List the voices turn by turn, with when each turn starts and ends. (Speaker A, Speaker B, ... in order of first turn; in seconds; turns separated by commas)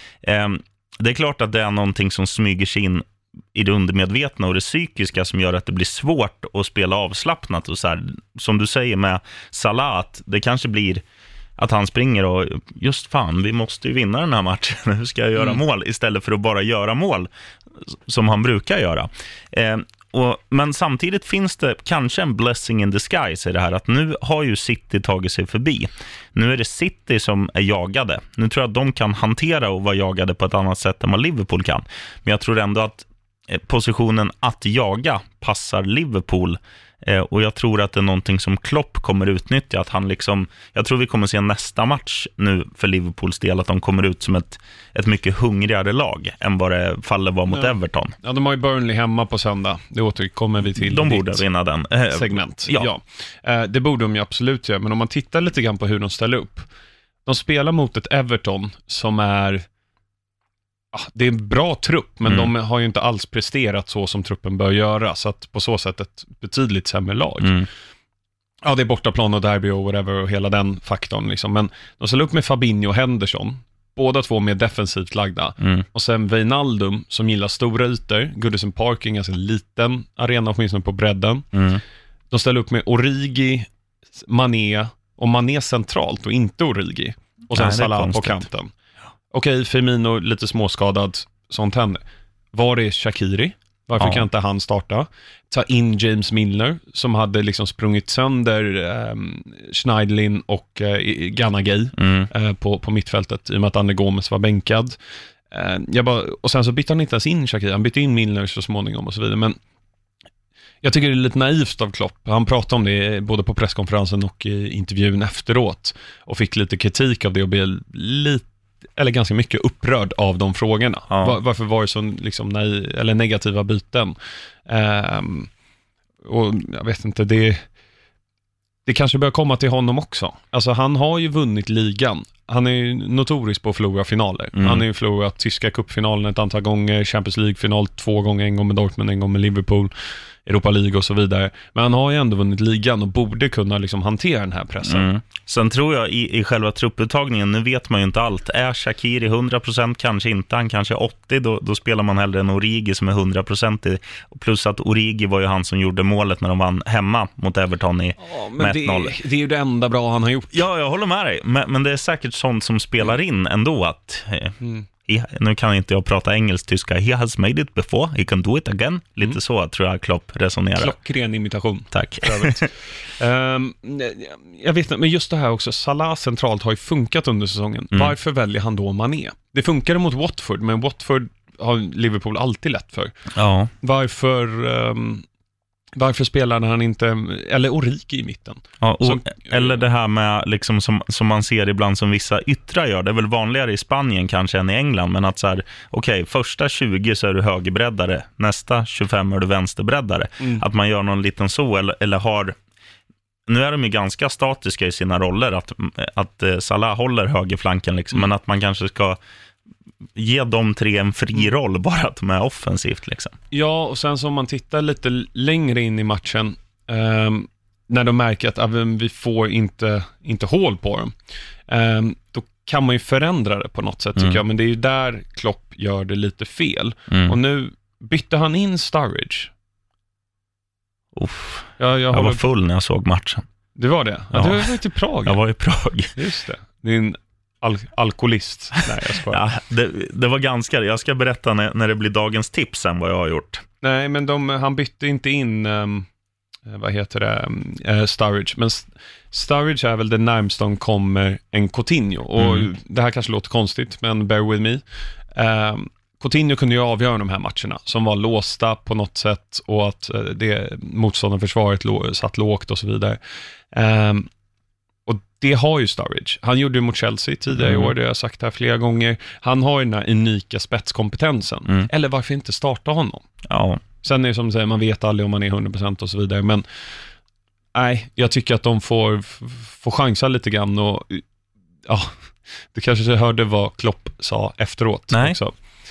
Speaker A: 0.2-11.0, Speaker A: 11.6-17.3, Speaker A: 18.1-48.2, Speaker B: 47.5-51.4, Speaker A: 50.8-52.9, Speaker B: 52.1-56.7, Speaker B: 57.3-59.7, Speaker B: 60.9-67.6, Speaker A: 67.4-67.7, Speaker B: 68.6-81.5, Speaker A: 81.5-81.8, Speaker B: 82.3-88.7, Speaker A: 87.5-88.5, Speaker B: 89.3-92.0, Speaker B: 92.5-105.0, Speaker A: 94.0-94.2, Speaker A: 102.0-102.3, Speaker B: 105.5-109.6, Speaker B: 110.8-125.5, Speaker A: 121.1-121.4, Speaker B: 126.2-127.7, Speaker B: 128.9-139.9, Speaker A: 134.6-134.8, Speaker B: 140.4-145.1, Speaker A: 144.8-159.2, Speaker B: 158.2-160.5, Speaker A: 160.5-170.9, Speaker B: 164.6-164.9, Speaker B: 170.8-183.2, Speaker A: 171.9-172.7, Speaker A: 183.3-183.7, Speaker B: 183.8-185.2, Speaker B: 186.0-189.8, Speaker A: 188.8-202.5, Speaker A: 203.5-209.2, Speaker A: 210.2-213.3, Speaker B: 213.5-221.2, Speaker B: 221.7-229.5, Speaker A: 227.1-227.4, Speaker A: 231.2-233.5, Speaker B: 231.8-232.4, Speaker B: 233.8-235.4, Speaker A: 234.3-236.2, Speaker B: 236.2-239.4, Speaker A: 238.8-243.6, Speaker B: 243.8-246.1, Speaker B: 246.7-263.2, Speaker A: 252.4-252.7, Speaker B: 263.7-264.3, Speaker B: 265.1-273.3, Speaker A: 267.5-267.9, Speaker A: 273.4-273.8, Speaker B: 274.0-276.6, Speaker B: 277.7-281.2, Speaker B: 281.9-285.6, Speaker A: 285.1-285.4